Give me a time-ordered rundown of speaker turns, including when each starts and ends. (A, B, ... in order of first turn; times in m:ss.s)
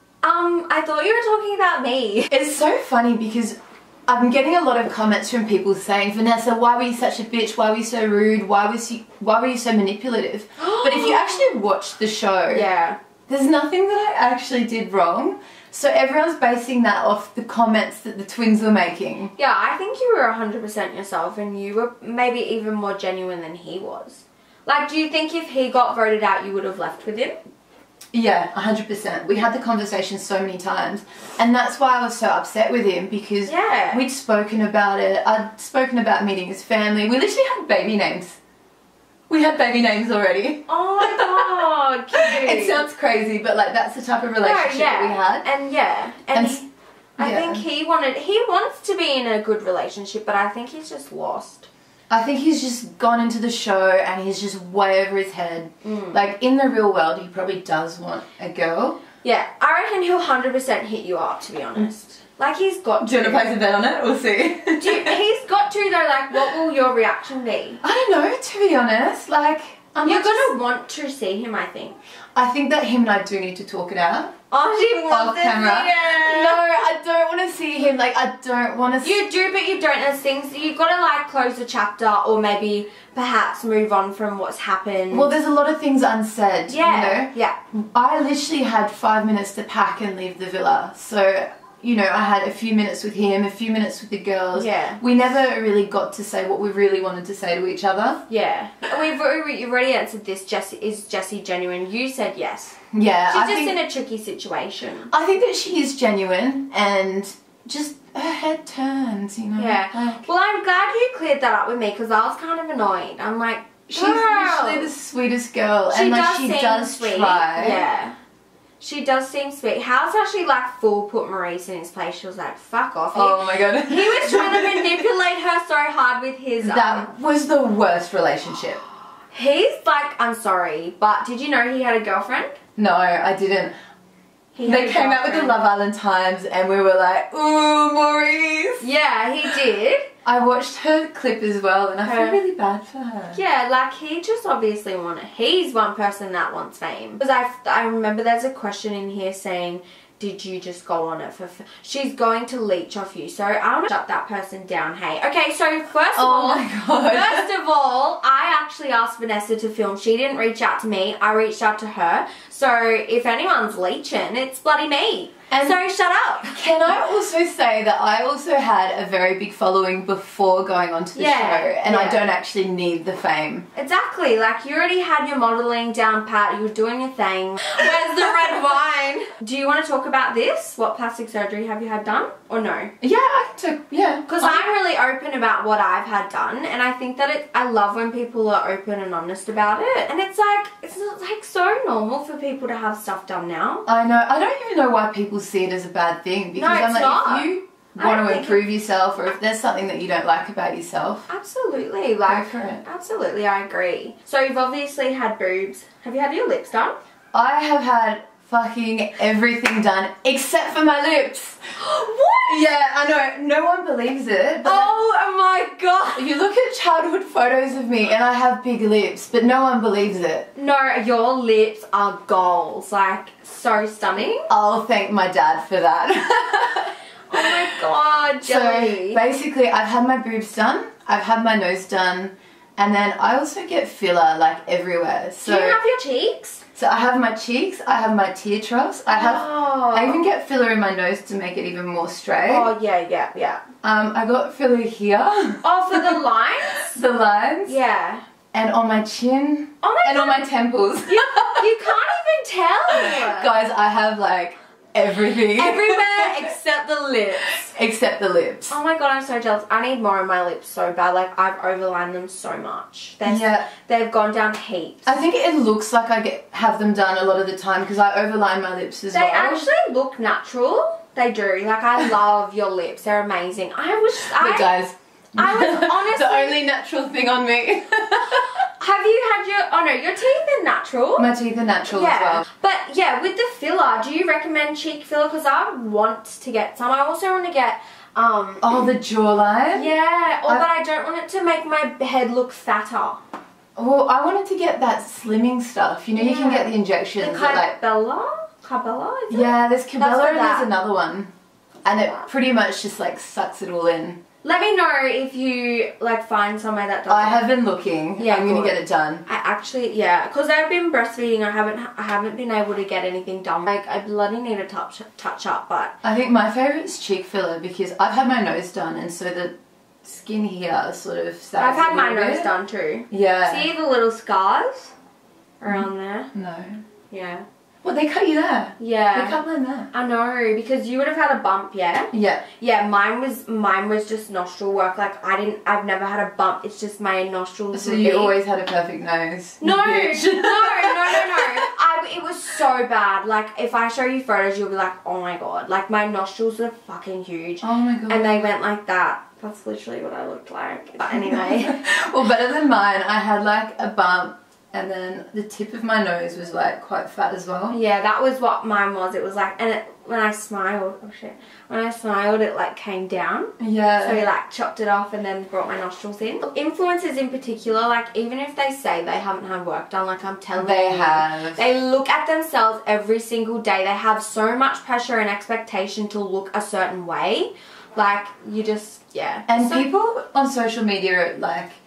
0:00.2-0:02.3 A
0:02.3-0:12.7 B
0:10.6-0:11.6 A
0:12.5-0:13.0 A
0:13.3-0:19.3 B
0:19.4-0:27.4 A
0:28.1-0:38.4 B
0:33.4-0:34.0 A
0:39.3-0:45.4 B
0:40.7-0:42.8 A
0:44.4-0:46.6 A
0:46.3-0:46.6 B
0:47.2-0:51.7 A
0:47.2-0:47.6 B
0:52.1-0:59.0 B
0:55.8-0:56.2 A
0:59.2-1:03.5 A
1:03.0-1:05.2 B
1:04.8-1:07.8 A
1:07.8-1:10.5 B
1:10.0-1:12.0 A
1:12.3-1:14.3 B
1:14.5-1:16.6 A
1:15.1-1:19.2 B
1:19.0-1:25.3 A
1:25.1-1:38.2 B
1:26.7-1:27.6 A
1:34.5-1:35.0 A
1:38.3-1:42.8 A
1:42.9-1:43.8 B
1:43.3-1:45.1 A
1:45.1-1:50.3 B
1:49.6-1:54.9 A
1:53.9-1:57.8 B
1:55.9-1:58.2 A
1:58.8-2:07.1 A
2:03.1-2:05.1 B
2:06.6-2:08.8 B
2:09.3-2:12.6 A
2:12.8-2:13.7 B
2:14.5-2:15.6 A
2:14.6-2:18.8 B
2:18.8-2:20.0 A
2:20.2-2:23.4 B
2:22.0-2:22.4 A
2:23.3-2:46.7 A
2:36.1-2:37.5 B
2:45.5-2:45.8 B
2:46.4-2:53.7 B
2:51.1-2:52.2 A
2:53.7-3:02.9 A
3:03.0-3:04.7 B
3:04.3-3:13.8 A
3:13.8-3:21.3 B
3:16.6-3:18.6 A
3:21.3-3:27.0 A
3:22.2-3:22.8 B
3:27.3-3:31.6 B
3:31.8-3:32.7 A
3:32.4-3:34.9 B
3:34.6-3:36.3 A
3:36.2-3:40.5 B
3:40.5-3:44.5 A
3:44.5-3:47.8 B
3:47.3-3:49.2 A
3:48.4-3:55.8 B
3:55.4-3:56.6 A
3:56.8-4:02.7 B
3:59.1-4:00.2 A
4:02.4-4:03.6 A
4:03.8-4:07.8 B
4:05.6-4:07.0 A
4:07.6-4:08.2 A
4:08.5-4:11.9 B
4:09.8-4:10.4 A
4:11.1-4:13.5 A
4:12.9-4:16.5 B
4:15.5-4:17.7 A
4:17.6-4:18.7 B
4:18.7-4:25.2 A
4:23.2-4:23.7 B
4:25.0-4:29.7 B
4:29.1-4:34.7 A
4:34.2-4:38.6 B
4:35.4-4:36.6 A
4:38.8-4:41.3 A
4:41.2-4:42.4 B
4:41.9-4:48.9 A
4:48.6-4:49.9 B
4:49.7-4:53.2 A
4:53.8-4:57.8 B
4:56.1-5:00.7 A
4:59.3-5:01.3 B
5:01.8-5:04.2 B
5:04.4-5:07.5 A
5:07.1-5:09.2 B
5:08.2-5:15.9 A
5:16.0-5:22.5 B
5:21.6-5:24.9 A
5:23.1-5:23.7 B
5:25.6-5:26.3 A
5:25.6-5:26.8 B
5:27.1-5:27.4 A
5:27.8-5:29.9 B
5:28.8-5:29.4 A
5:29.9-5:38.4 A
5:32.1-5:32.4 B
5:37.7-5:41.6 B
5:39.6-5:51.8 A
5:47.6-5:48.5 B
5:51.1-5:57.8 B
5:57.7-6:19.9 A
6:03.6-6:04.3 B
6:10.6-6:11.6 B
6:19.5-6:21.7 B